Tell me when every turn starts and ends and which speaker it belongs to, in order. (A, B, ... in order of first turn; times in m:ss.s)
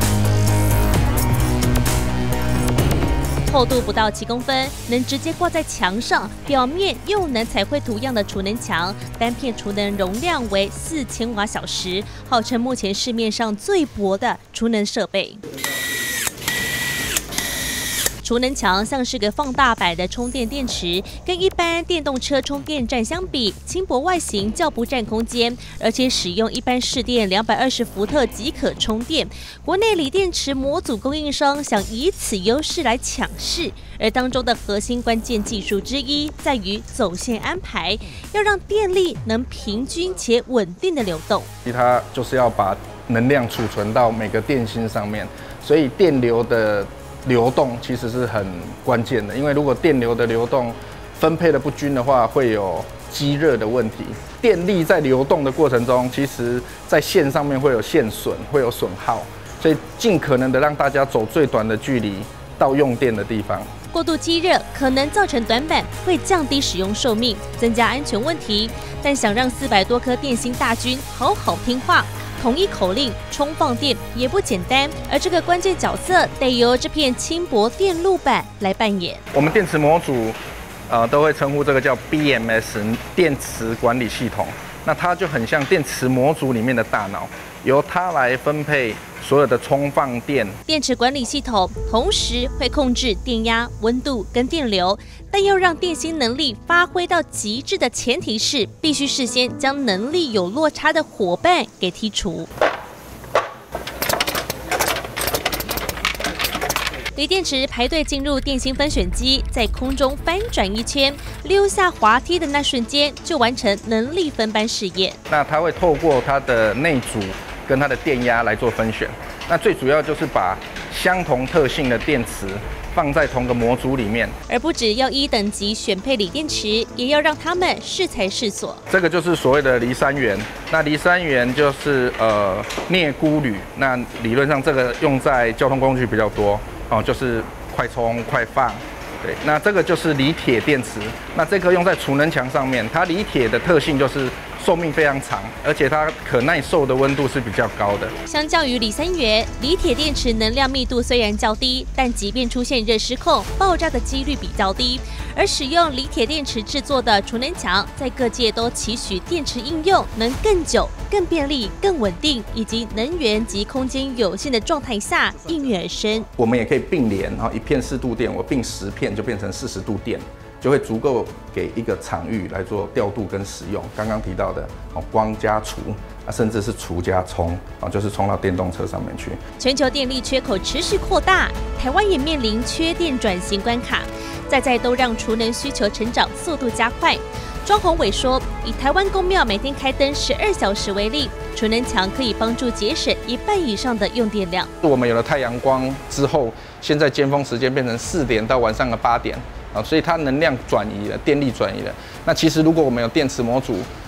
0:03.5-0:15.4 A
0:18.2-0:41.5 A
0:41.6-1:03.7 B
1:03.9-1:19.2 A
1:19.3-1:20.4 B
1:20.9-1:30.6 B
1:30.7-1:42.5 A
1:47.1-1:55.2 A
1:55.3-2:04.4 B
2:04.5-2:08.8 A
2:08.9-2:28.1 B
2:28.2-2:46.3 A
2:46.4-2:59.4 B
2:59.6-3:14.7 A
3:14.8-3:23.9 B